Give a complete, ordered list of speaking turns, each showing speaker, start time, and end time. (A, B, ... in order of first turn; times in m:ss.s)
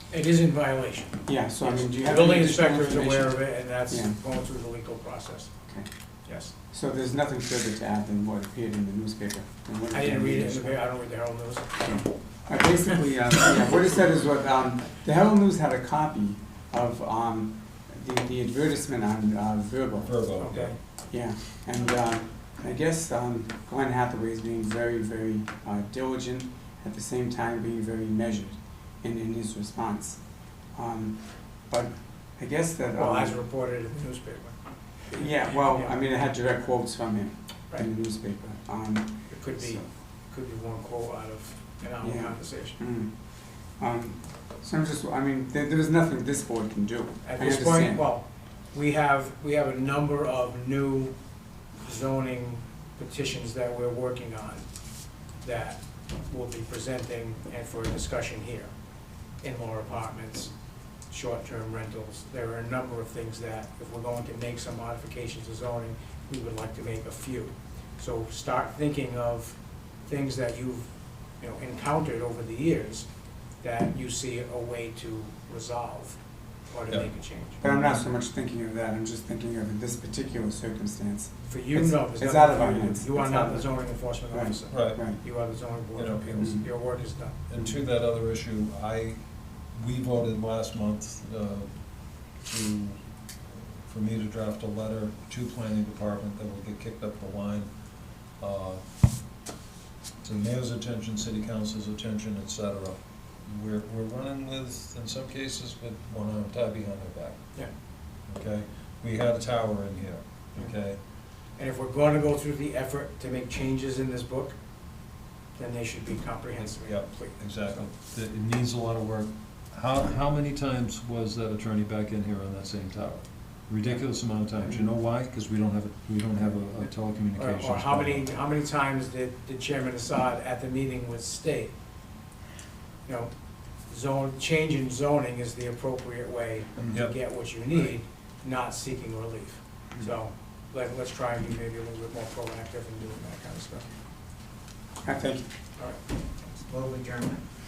0:00.1-0:05.6 A
0:01.2-0:04.2 B
0:06.2-0:06.5 A
0:06.7-0:10.8 B
0:09.9-0:11.9 A
0:11.8-0:20.1 B
0:20.0-0:20.7 C
0:20.4-0:20.8 A
0:21.1-0:33.4 B
0:33.0-0:35.9 A
0:35.1-0:39.8 B
0:39.3-0:42.8 A
0:42.0-0:48.0 B
0:47.2-0:51.2 A
0:51.8-0:54.6 A
0:55.4-0:58.7 A
0:59.4-1:00.5 A
1:01.1-1:10.9 A
1:11.4-1:13.1 A
1:13.6-1:16.2 A
1:16.7-1:17.6 A
1:17.6-1:25.2 B
1:21.5-1:27.4 A
1:24.7-1:25.0 C
1:25.9-1:26.7 C
1:26.4-1:26.6 B
1:27.5-1:29.2 C
1:29.8-1:31.7 C
1:32.4-1:37.7 C
1:38.4-1:38.8 C
1:40.2-1:47.4 C
1:48.3-1:51.0 C
1:51.6-1:54.6 A
1:55.6-1:57.3 A
1:56.7-2:08.2 C
2:07.4-2:11.7 A
2:13.0-2:13.3 A
2:13.9-2:23.9 A
2:16.8-2:17.1 C
2:25.0-2:25.4 B
2:25.8-2:27.4 A